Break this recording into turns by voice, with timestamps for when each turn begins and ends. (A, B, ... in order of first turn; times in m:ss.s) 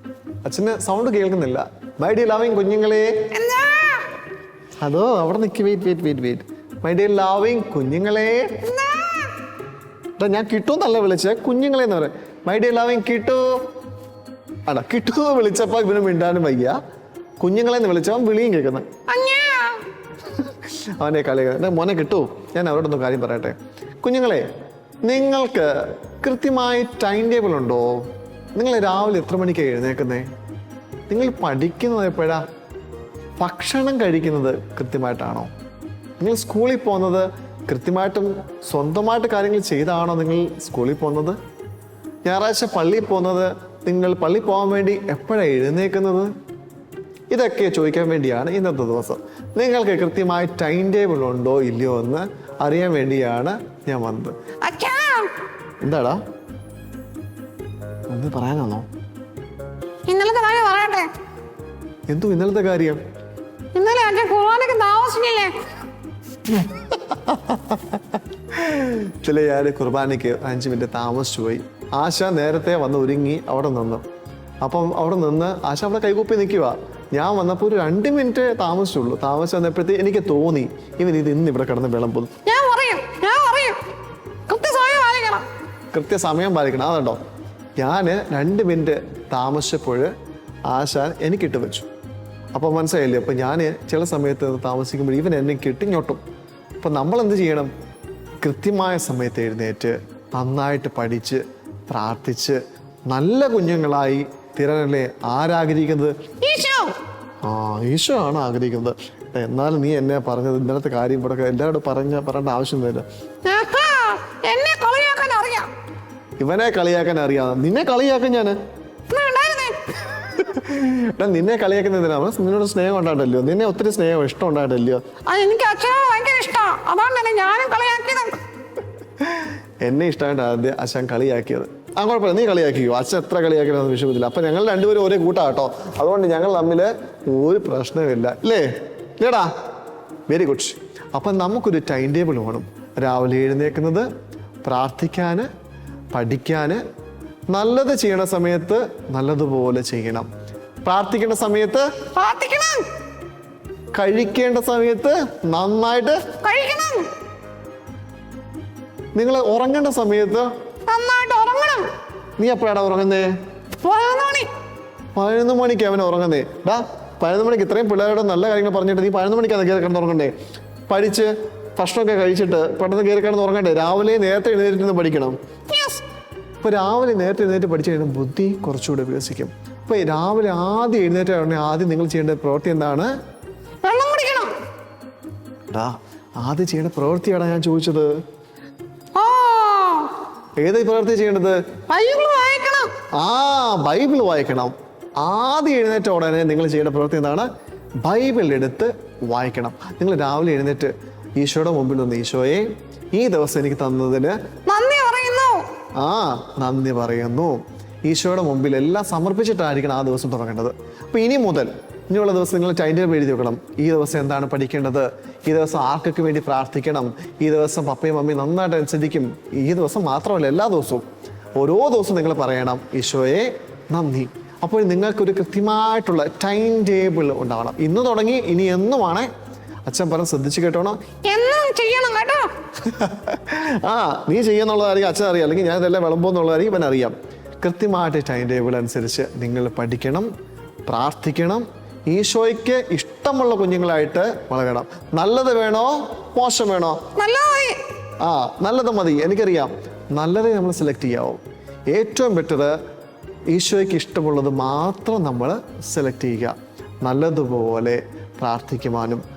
0:00.4-0:03.2 A
0:03.3-0:04.1 B
0:04.8-0:08.6 A
0:08.6-0:09.4 B
0:10.2-0:13.7 A
0:14.7-0:16.8 A
0:17.4-0:18.9 A
0:19.1-0:19.8 B
0:20.3-0:24.4 A
0:25.0-0:30.3 A
0:31.1-0:32.4 A
0:33.4-0:35.5 A
0:36.2-0:41.4 A
0:42.2-0:46.3 A
0:47.3-0:54.4 A
0:54.6-0:55.3 B
0:55.8-0:56.2 A
0:58.1-0:58.9 A
1:00.1-1:01.1 B
1:02.1-1:03.0 A
1:03.7-1:05.5 B
1:06.5-1:14.0 A
1:14.6-1:22.3 A
1:22.5-1:23.8 B
1:24.5-1:25.5 B
1:25.9-1:27.2 A
1:27.8-1:30.1 A
1:30.7-1:31.9 A
1:32.5-1:36.2 A
1:36.8-1:37.7 A
1:38.4-1:46.1 A
1:46.4-1:47.0 B
1:47.4-1:53.1 A
1:53.4-1:55.7 B
1:56.4-1:58.6 A
1:59.1-2:00.1 B
2:00.3-2:05.0 A
2:05.3-2:08.4 B
2:09.2-2:19.5 A
2:20.3-2:24.1 A
2:24.6-2:25.5 A
2:26.1-2:26.8 A
2:27.5-2:30.3 A
2:30.8-2:31.9 A
2:32.2-2:32.9 B
2:33.9-2:36.2 A
2:36.4-2:37.1 B
2:39.1-2:40.5 A
2:40.9-2:41.9 B
2:42.4-2:43.3 A
2:43.8-2:44.5 B
2:45.2-2:50.3 A
2:50.9-2:55.4 A
2:55.7-2:56.0 B
2:56.6-3:03.1 A
3:03.8-3:04.5 B
3:05.7-3:08.1 A
3:09.2-3:10.2 B
3:10.6-3:11.6 A
3:11.9-3:12.9 B
3:13.2-3:17.5 A
3:18.0-3:24.4 A
3:24.7-3:25.7 B
3:26.0-3:49.3 A
3:49.9-3:51.0 A
3:51.2-3:52.5 B
3:52.8-4:00.3 A
4:00.9-4:07.0 A
4:07.2-4:07.8 B
4:08.2-4:12.7 A
4:13.5-4:19.2 A